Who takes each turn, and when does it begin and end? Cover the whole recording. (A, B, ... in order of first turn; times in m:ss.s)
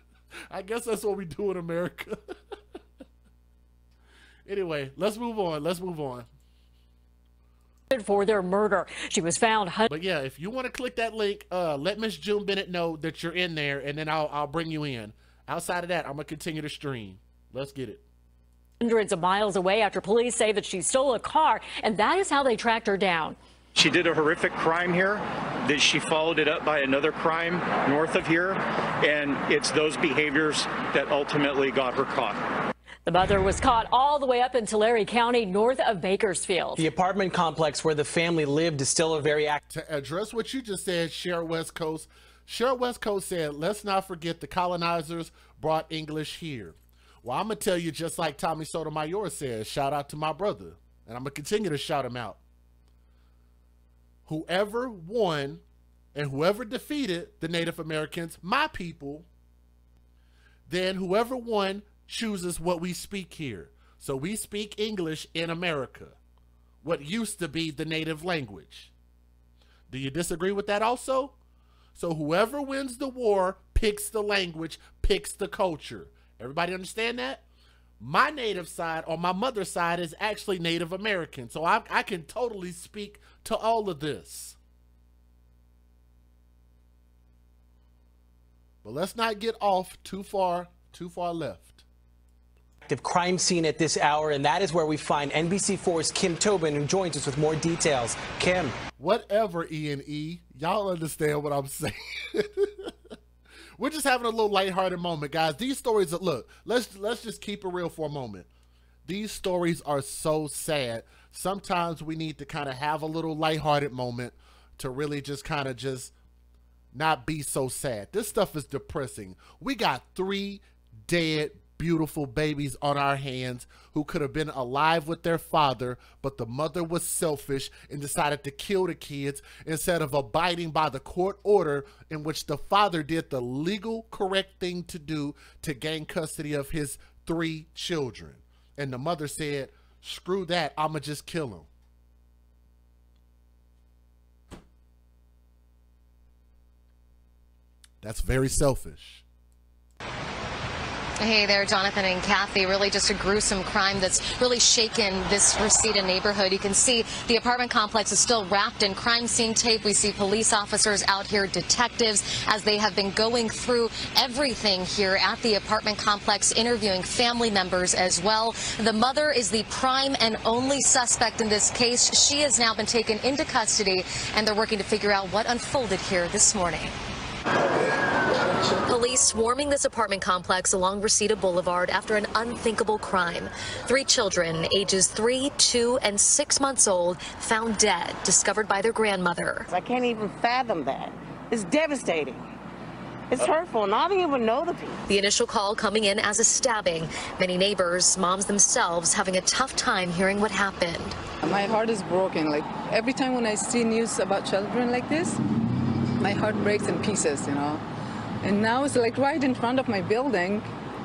0:00.5-0:02.2 A
0:04.5-0:06.3 A
0:07.9-0:09.9 B
0:09.9-0:18.0 A
0:18.8-0:23.4 B
0:23.8-0:32.4 C
0:33.1-0:36.8 B
0:36.8-0:39.6 D
0:39.7-0:52.4 A
0:54.3-0:55.6 A
0:56.2-0:59.3 A
1:00.7-1:06.2 A
1:06.8-1:08.9 A
1:09.9-1:11.4 A
1:12.0-1:17.4 A
1:18.0-1:24.6 A
1:28.8-1:31.8 A
1:32.9-1:38.8 D
1:39.0-1:42.9 A
1:43.8-1:48.5 A
1:49.1-1:56.1 A
1:56.9-2:21.7 A
2:28.0-2:29.2 A
2:31.2-2:56.9 E
2:58.8-3:09.7 E
3:09.7-3:12.4 F
3:13.3-3:15.0 F
3:15.1-3:21.2 E
3:21.4-3:25.4 G
3:26.2-3:27.8 G
3:28.4-3:30.7 G